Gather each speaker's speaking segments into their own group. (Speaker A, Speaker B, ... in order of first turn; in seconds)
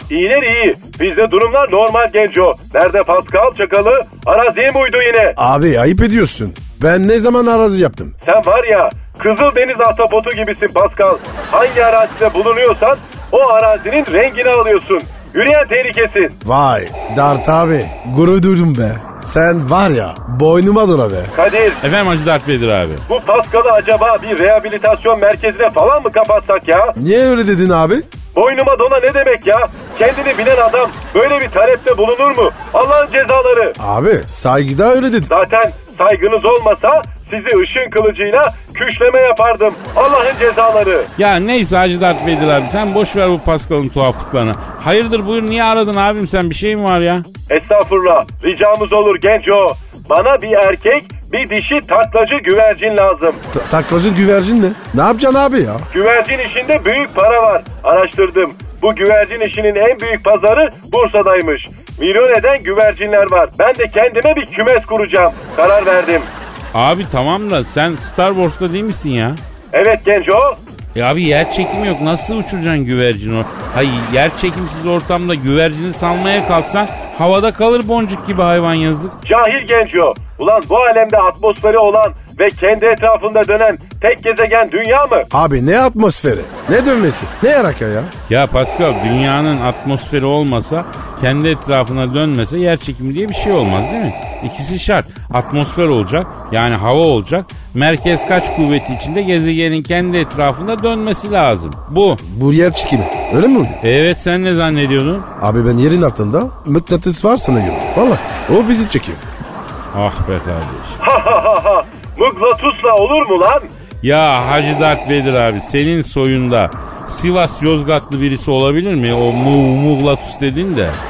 Speaker A: 0.1-5.4, 8.2-16.4, 21.3-21.8, 23.1-27.0, 28.4-33.8, 35.3-41.1, 47.5-53.4, 55.9-66.3, 69.7-70.6, 79.2-85.3, 111.0-113.7
Speaker B: 5.4-8.1, 16.4-21.3, 27.0-28.1, 33.8-35.3, 53.5-55.9, 85.3-88.1, 102.2-103.8, 105.4-109.2
Speaker C: 21.8-23.0, 41.2-47.3, 66.7-69.4, 71.0-79.2, 88.3-102.2, 103.8-105.3, 109.9-111.0, 114.0-121.0